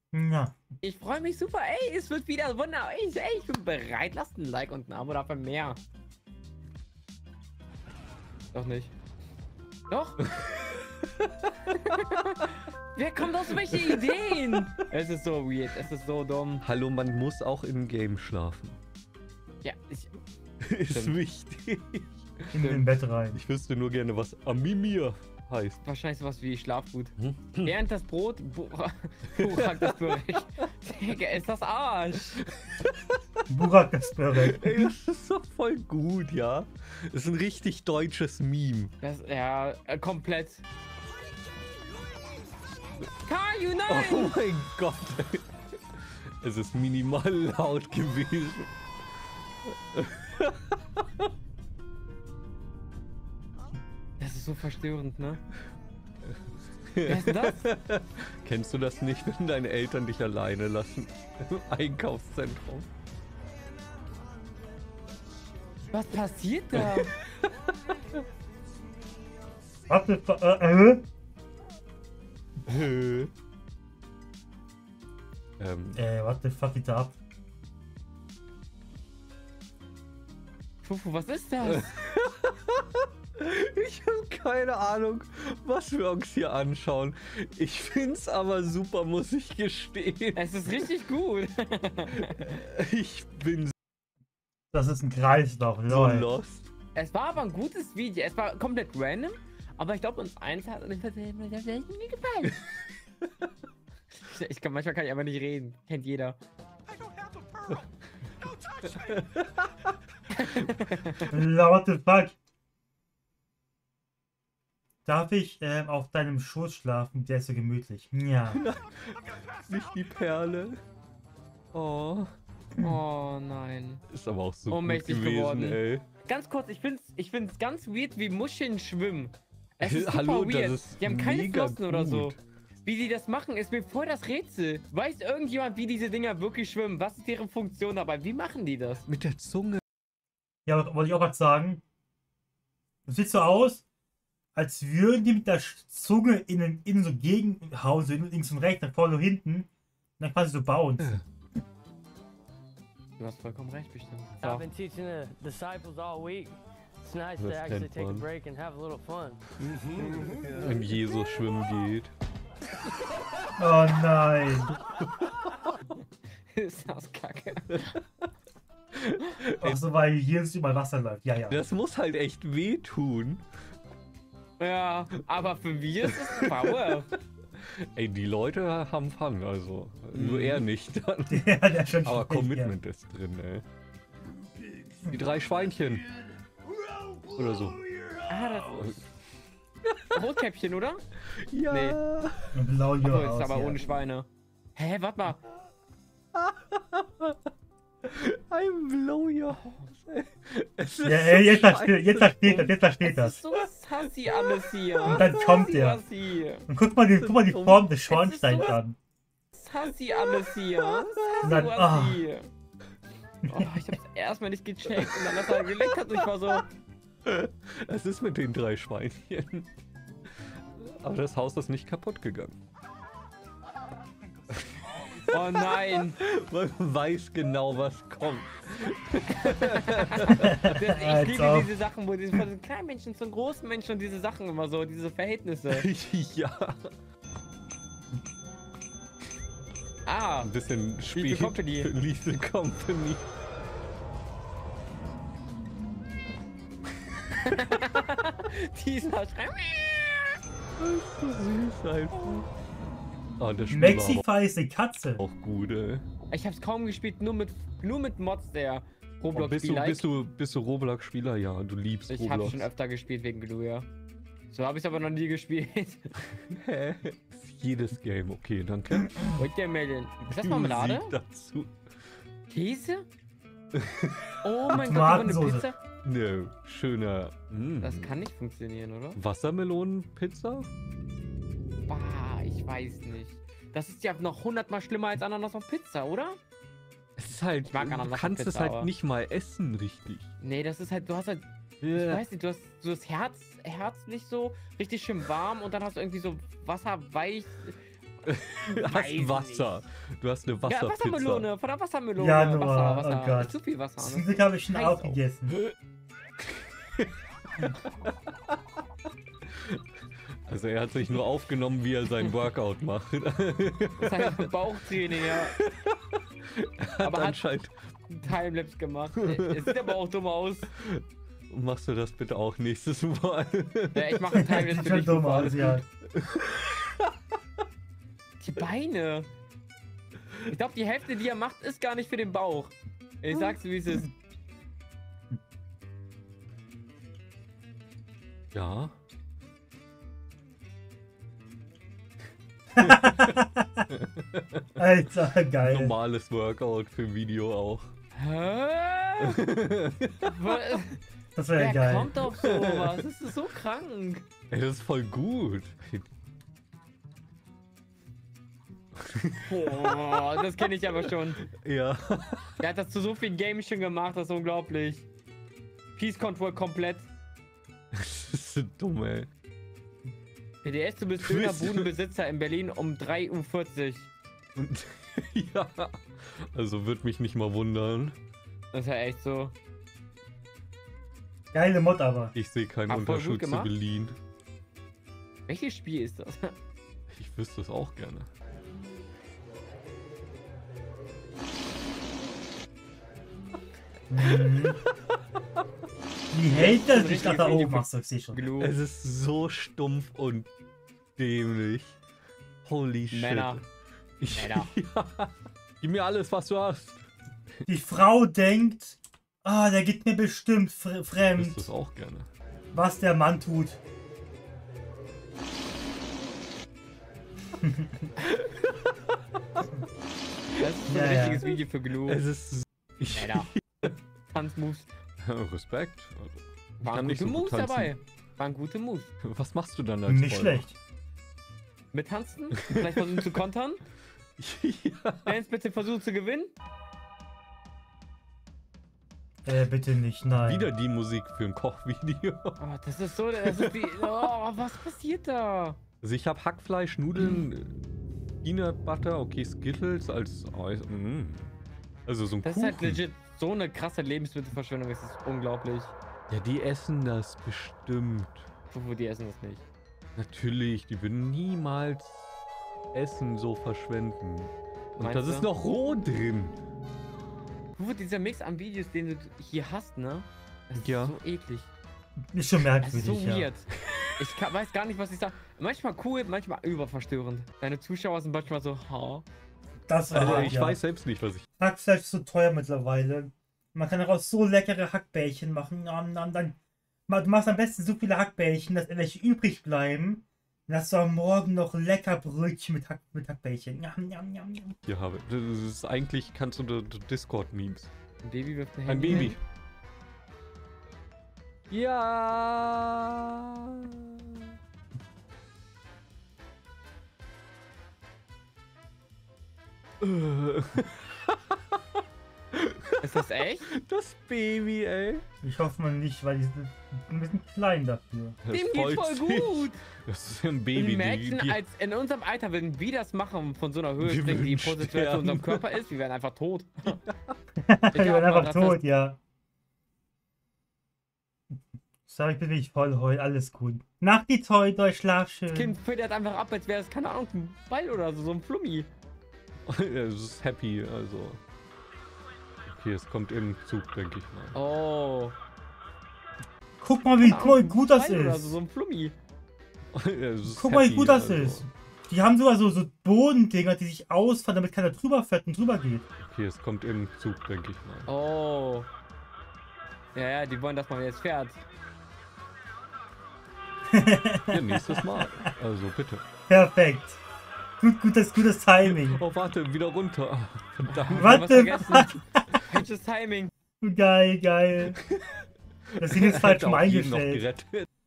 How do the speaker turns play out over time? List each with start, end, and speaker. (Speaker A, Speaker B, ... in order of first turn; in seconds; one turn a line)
Speaker A: 0.1-0.6
Speaker B: 0.8-5.8
Speaker B: 8.5-8.9
Speaker B: 9.9-10.2
Speaker C: 10.2-10.7
Speaker B: 11.9-12.3
Speaker B: 13.0-16.6
Speaker C: 13.5-14.8
Speaker C: 16.6-18.8
Speaker B: 19.6-20.1
Speaker C: 20.6-25.8
Speaker B: 20.9-21.2
Speaker A: 22.5-23.4
Speaker B: 25.9-32.4
Speaker C: 27.2-27.8
Speaker C: 29.3-30.7
Speaker A: 33.5-34.9
Speaker C: 34.4-38.9
Speaker B: 39.0-40.6
Speaker B: 43.3-44.4
Speaker C: 43.9-45.5
Speaker C: 46.4-48.7
Speaker C: 50.0-50.5
Speaker B: 54.2-55.4
Speaker C: 56.9-62.9
Speaker B: 57.1-57.6
Speaker B: 65.9-67.1
Speaker C: 66.8-67.2
Speaker A: 69.9-71.0
Speaker C: 72.7-73.3
Speaker C: 75.6-76.0
Speaker A: 76.0-77.2
Speaker B: 80.8-81.8
Speaker C: 81.7-82.8
Speaker C: 83.4-90.7
Speaker B: 90.4-92.4
Speaker C: 92.5-93.7
Speaker A: 94.7-96.3
Speaker C: 95.9-96.7
Speaker B: 97.0-102.5
Speaker B: 104.3-106.4
Speaker C: 108.8-109.5
Speaker B: 110.4-111.2
Speaker A: 111.3-112.3
Speaker A: 115.0-118.6
Speaker C: 118.5-120.8
Speaker C: 121.7-122.3
Speaker B: 122.8-124.0
Speaker C: 124.1-126.1
Speaker B: 124.7-132.3
Speaker C: 129.8-132.4
Speaker B: 132.9-139.0
Speaker C: 139.1-139.8
Speaker A: 140.7-141.8
Speaker A: 143.1-143.8
Speaker A: 144.6-149.7
Speaker A: 150.2-151.2
Speaker B: 153.2-154.7
Speaker D: 154.4-159.4
Speaker C: 157.4-158.3
Speaker C: 160.0-162.1
Speaker A: 163.6-164.7
Speaker B: 166.6-167.6
Speaker C: 167.7-168.0
Speaker C: 168.9-169.8
Speaker A: 169.6-171.6
Speaker C: 171.5-173.4
Speaker B: 174.6-177.1
Speaker C: 177.6-183.6
Speaker A: 181.3-182.7
Speaker C: 185.1-186.1
Speaker C: 187.3-187.8
Speaker B: 188.3-189.0
Speaker C: 188.7-189.1
Speaker C: 189.9-190.2
Speaker B: 190.2-191.0
Speaker C: 191.5-192.4
Speaker B: 191.7-192.0
Speaker A: 192.5-193.8
Speaker B: 193.1-195.4
Speaker C: 196.4-197.4
Speaker C: 198.1-202.7
Speaker B: 199.6-199.9
Speaker A: 201.0-203.4
Speaker B: 203.0-206.6
Speaker C: 204.3-205.2
Speaker A: 205.1-206.0
Speaker A: 206.7-209.0
Speaker C: 207.1-208.0
Speaker B: 208.1-208.8
Speaker B: 209.5-212.5
Speaker C: 210.1-211.8
Speaker A: 211.4-212.2
Speaker B: 213.5-216.6
Speaker C: 214.9-215.7
Speaker C: 217.3-219.7
Speaker C: 220.8-222.6
Speaker B: 225.3-226.2
Speaker C: 225.3-230.7
Speaker B: 229.5-229.9
Speaker A: 230.5-231.7
Speaker B: 230.8-235.8
Speaker C: 235.7-236.8
Speaker B: 240.1-240.5
Speaker C: 240.4-243.2
Speaker B: 241.1-241.9
Speaker B: 247.5-250.4
Speaker C: 250.8-252.5
Speaker C: 253.4-254.2
Speaker A: 253.7-255.2
Speaker C: 255.2-256.0
Speaker B: 256.3-260.0
Speaker C: 259.3-262.7
Speaker B: 262.1-263.9
Speaker B: 264.5-266.0
Speaker C: 266.5-269.3
Speaker B: 269.4-271.1
Speaker C: 270.2-271.8
Speaker B: 272.5-273.1
Speaker C: 273.8-274.4
Speaker B: 274.4-275.8
Speaker A: 274.7-275.6
Speaker C: 276.0-278.1
Speaker B: 277.8-279.2
Speaker C: 279.1-280.7
Speaker B: 281.9-286.4
Speaker C: 287.2-290.3
Speaker B: 287.6-288.9
Speaker B: 290.4-297.8
Speaker C: 291.8-292.2
Speaker C: 298.3-301.5
Speaker B: 298.8-299.7
Speaker B: 300.7-305.2
Speaker A: 302.2-305.6
Speaker C: 310.5-314.4
Speaker B: 314.0-315.5
Speaker C: 316.6-317.7
Speaker B: 317.0-317.4
Speaker B: 318.1-320.7
Speaker C: 319.2-319.9
Speaker C: 320.8-324.5
Speaker B: 323.9-325.8
Speaker A: 324.4-325.9
Speaker C: 326.2-326.7
Speaker B: 328.4-329.3
Speaker B: 330.5-334.1
Speaker C: 338.5-338.9
Speaker C: 342.8-343.4
Speaker A: 342.8-343.8
Speaker C: 344.0-344.6
Speaker A: 344.8-345.9
Speaker C: 345.6-347.9
Speaker B: 348.1-349.4
Speaker C: 349.3-350.3
Speaker B: 350.2-351.0
Speaker A: 351.4-352.1
Speaker B: 351.6-354.3
Speaker C: 352.3-352.8
Speaker C: 354.5-356.1
Speaker C: 359.2-359.5
Speaker B: 359.4-361.4
Speaker C: 360.7-362.6
Speaker B: 362.6-365.1
Speaker B: 366.0-367.1
Speaker C: 367.9-369.3
Speaker B: 370.6-374.1
Speaker C: 371.2-371.9
Speaker C: 374.6-378.1
Speaker B: 378.7-379.6
Speaker A: 381.5-382.3
Speaker C: 382.4-384.1
Speaker B: 382.9-383.7
Speaker B: 385.5-386.5
Speaker C: 387.1-388.3
Speaker A: 394.1-394.8
Speaker A: 396.3-398.4
Speaker B: 396.5-398.7
Speaker C: 398.6-400.5
Speaker C: 401.2-402.0
Speaker C: 402.6-403.7
Speaker B: 403.1-403.6
Speaker C: 404.2-407.0
Speaker B: 404.3-404.7
Speaker A: 407.7-411.7
Speaker C: 411.2-412.3
Speaker A: 412.7-413.8
Speaker A: 417.6-418.1
Speaker B: 420.6-422.2
Speaker A: 420.9-421.4
Speaker C: 421.4-423.9
Speaker B: 423.1-423.5
Speaker B: 424.3-425.0
Speaker C: 425.2-427.9
Speaker B: 426.8-429.1
Speaker C: 429.2-430.7
Speaker A: 430.1-430.7
Speaker B: 431.9-433.8
Speaker C: 432.6-433.3
Speaker C: 434.4-435.3
Speaker B: 435.3-436.5
Speaker A: 439.4-440.7
Speaker C: 440.4-442.6
Speaker B: 442.6-445.8
Speaker C: 443.5-443.7
Speaker C: 446.0-447.8
Speaker C: 448.4-451.5
Speaker C: 452.1-453.0
Speaker B: 452.4-455.9
Speaker C: 456.3-458.5
Speaker B: 458.7-459.6
Speaker C: 460.2-462.3
Speaker C: 462.9-466.6
Speaker B: 465.0-465.5
Speaker B: 467.8-471.7
Speaker C: 470.8-471.2
Speaker A: 472.3-473.5
Speaker B: 472.8-473.6
Speaker B: 474.2-479.3
Speaker A: 479.9-480.8
Speaker C: 480.1-481.5
Speaker A: 481.6-486.6
Speaker A: 487.1-494.8
Speaker C: 494.9-497.9
Speaker B: 498.2-499.4
Speaker C: 498.9-499.4
Speaker C: 501.7-504.2
Speaker C: 510.0-511.4
Speaker C: 512.5-515.2
Speaker B: 513.0-513.6
Speaker A: 515.4-518.4
Speaker C: 518.5-521.6
Speaker B: 518.5-519.8
Speaker B: 520.8-527.0
Speaker C: 524.0-525.7
Speaker C: 526.9-527.4
Speaker A: 527.7-529.2
Speaker B: 528.0-528.8
Speaker A: 532.1-535.8
Speaker B: 535.5-538.9
Speaker C: 539.7-541.4
Speaker C: 542.7-544.6
Speaker B: 544.5-545.4
Speaker A: 546.8-548.6
Speaker B: 547.2-549.1
Speaker C: 549.9-551.7
Speaker A: 550.5-556.0
Speaker C: 556.2-558.1
Speaker B: 558.1-558.9
Speaker B: 560.1-561.6
Speaker A: 563.9-565.0
Speaker C: 564.5-566.2
Speaker A: 566.5-567.2
Speaker A: 567.8-569.2
Speaker C: 568.8-571.8
Speaker B: 570.9-573.5
Speaker A: 571.2-572.1
Speaker A: 573.8-575.0
Speaker A: 576.0-577.5
Speaker C: 576.0-577.9